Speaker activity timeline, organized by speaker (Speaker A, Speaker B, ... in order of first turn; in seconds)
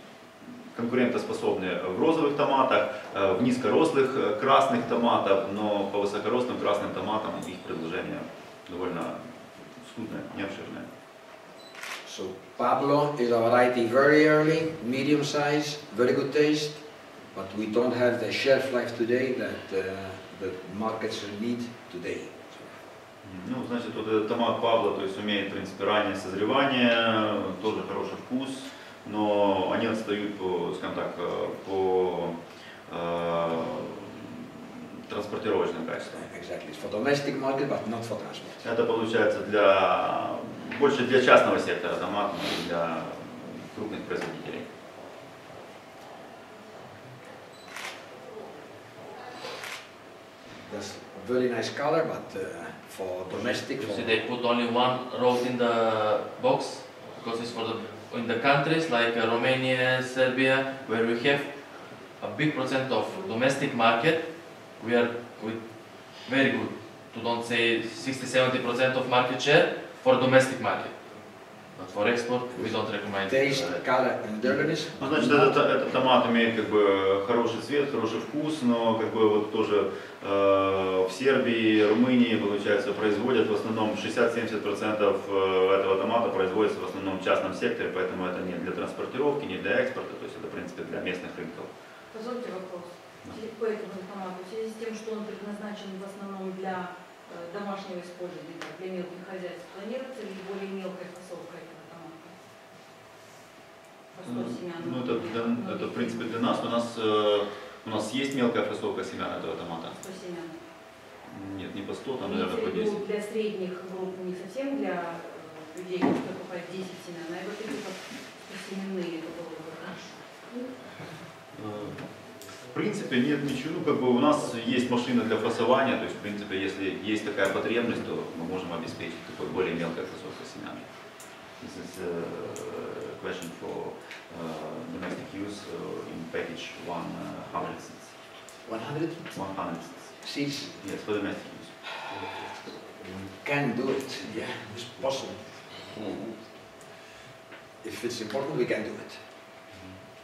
Speaker A: 0.7-10.9, 23.2-32.4, 32.9-36.2, 38.6-44.7, 74.5-91.7, 104.2-110.0, 111.2-113.0, 121.5-122.1, 122.6-138.2, 139.3-140.2, 140.8-141.7
Speaker B: 12.0-22.8, 36.0-38.7, 50.6-54.2, 73.2-75.6, 138.6-139.4, 140.2-140.8, 142.1-146.2, 147.8-149.2
Speaker C: 53.3-73.8
Speaker D: 92.1-102.3, 104.1-106.6, 109.9-110.5, 112.2-120.3